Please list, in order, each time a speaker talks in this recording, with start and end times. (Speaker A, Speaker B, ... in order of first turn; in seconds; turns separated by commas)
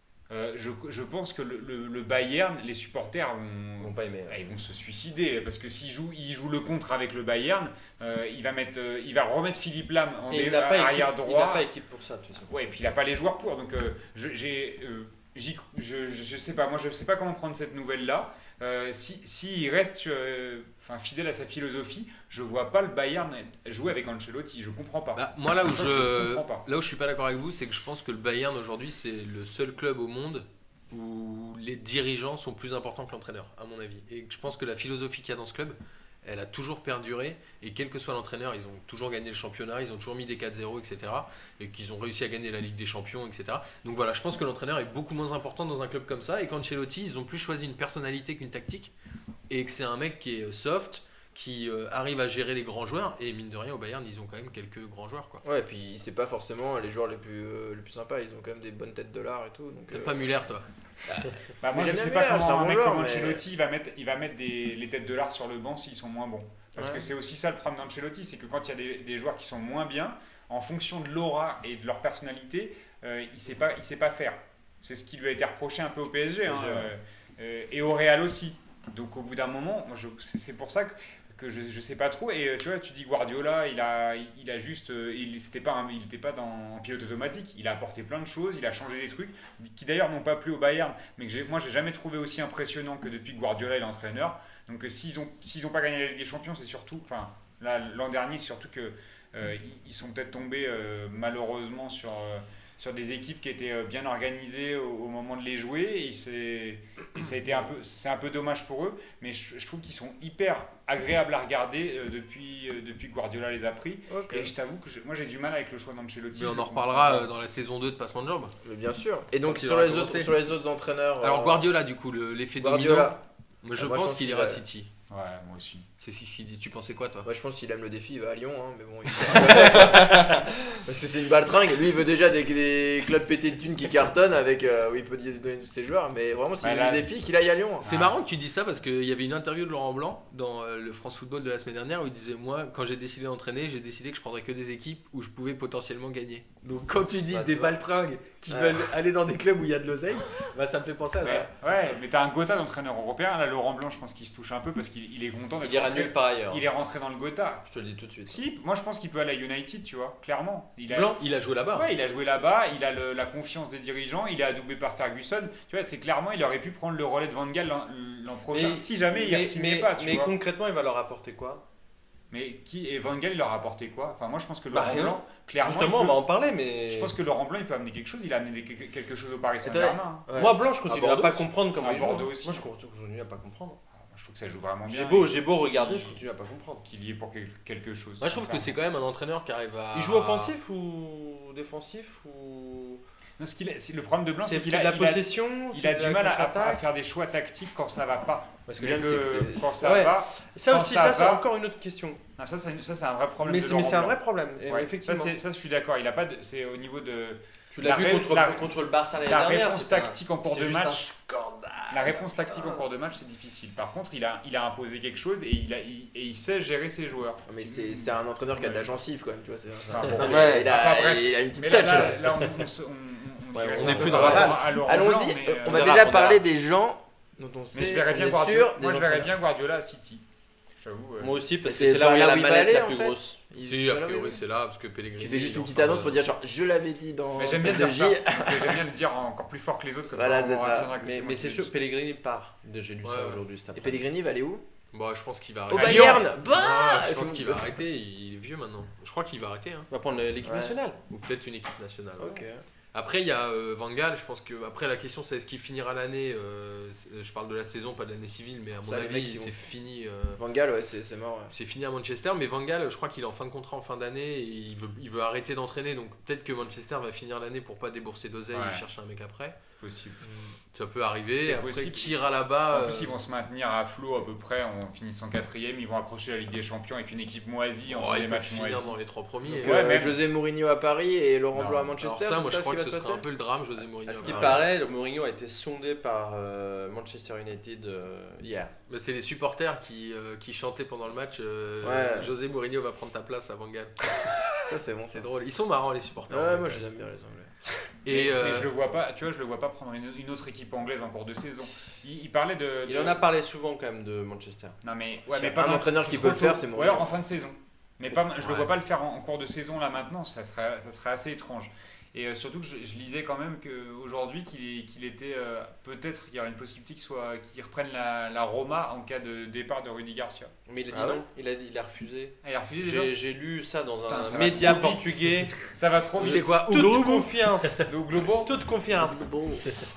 Speaker A: 0.3-11.7, Speaker B: 3.8-4.4, Speaker B: 10.3-12.5, Speaker A: 12.5-26.6, Speaker C: 25.1-48.9, Speaker C: 49.5-55.4, Speaker D: 55.4-60.2, Speaker C: 59.9-60.6, Speaker D: 61.1-63.4, Speaker A: 61.6-117.3, Speaker D: 66.8-67.0, Speaker B: 76.5-76.9, Speaker D: 114.1-114.5, Speaker C: 116.3-118.5, Speaker D: 118.6-121.7, Speaker C: 119.5-120.4, Speaker C: 121.2-124.9, Speaker D: 122.6-123.2, Speaker D: 123.8-124.6, Speaker A: 125.1-125.9, Speaker C: 126.0-127.3, Speaker D: 127.2-137.9, Speaker C: 129.3-129.7, Speaker B: 129.8-130.4, Speaker A: 136.6-137.1, Speaker A: 137.8-138.2, Speaker C: 137.8-151.4, Speaker B: 147.3-147.7, Speaker D: 148.5-148.8, Speaker D: 151.2-151.8, Speaker A: 151.2-157.6, Speaker B: 155.6-156.6, Speaker B: 157.7-158.4, Speaker A: 158.2-161.2, Speaker B: 160.9-161.2, Speaker C: 161.2-161.9, Speaker A: 161.7-170.3, Speaker B: 168.5-171.6, Speaker A: 172.3-176.2, Speaker B: 174.7-177.1, Speaker A: 176.9-180.2, Speaker D: 179.6-180.6, Speaker B: 180.3-183.8, Speaker C: 180.8-181.5, Speaker A: 181.8-182.6, Speaker A: 183.9-186.2, Speaker B: 184.9-186.8, Speaker A: 186.8-188.7, Speaker C: 188.2-190.5, Speaker B: 189.9-193.0, Speaker A: 193.4-201.4, Speaker B: 194.4-196.8, Speaker D: 198.7-199.7, Speaker B: 199.8-202.2, Speaker A: 202.4-211.1, Speaker B: 203.4-205.3, Speaker B: 207.7-212.8, Speaker A: 211.9-219.0, Speaker D: 217.5-222.5, Speaker A: 219.8-226.0, Speaker B: 220.2-220.7, Speaker B: 223.5-224.5, Speaker D: 223.7-229.3, Speaker C: 223.8-224.9, Speaker B: 225.7-226.4, Speaker A: 227.7-230.2, Speaker A: 230.8-231.4, Speaker B: 231.2-233.4, Speaker D: 231.6-234.4, Speaker C: 233.6-236.2, Speaker D: 235.2-238.8, Speaker A: 237.4-241.7, Speaker D: 240.1-240.9, Speaker B: 241.0-244.0, Speaker C: 243.0-243.4, Speaker D: 243.7-244.6, Speaker C: 244.9-249.9, Speaker D: 245.7-247.7, Speaker A: 245.8-246.2, Speaker B: 249.9-251.1, Speaker D: 250.4-250.8, Speaker C: 251.1-252.4, Speaker D: 252.2-252.6, Speaker C: 252.9-260.4, Speaker D: 258.8-259.6, Speaker D: 260.4-261.5, Speaker C: 261.5-269.6, Speaker A: 268.5-268.8, Speaker A: 269.7-270.2, Speaker D: 270.2-270.5, Speaker C: 270.7-273.2, Speaker A: 271.4-272.1, Speaker A: 272.7-278.9, Speaker C: 277.9-279.9, Speaker D: 279.6-283.2, Speaker A: 279.6-280.2, Speaker A: 281.5-281.9, Speaker C: 282.0-284.7, Speaker B: 284.1-288.7, Speaker D: 284.2-284.6, Speaker C: 288.9-296.8, Speaker D: 291.8-292.3, Speaker D: 294.6-295.2, Speaker D: 296.3-297.5, Speaker C: 298.0-298.7, Speaker A: 298.1-303.2, Speaker B: 302.9-304.8, Speaker A: 304.8-320.5, Speaker D: 305.3-307.1, Speaker B: 320.7-325.6, Speaker D: 320.9-321.2, Speaker A: 322.4-323.1, Speaker A: 324.1-326.5, Speaker C: 326.2-327.9, Speaker B: 326.2-329.4, Speaker A: 327.9-328.6, Speaker D: 328.9-329.7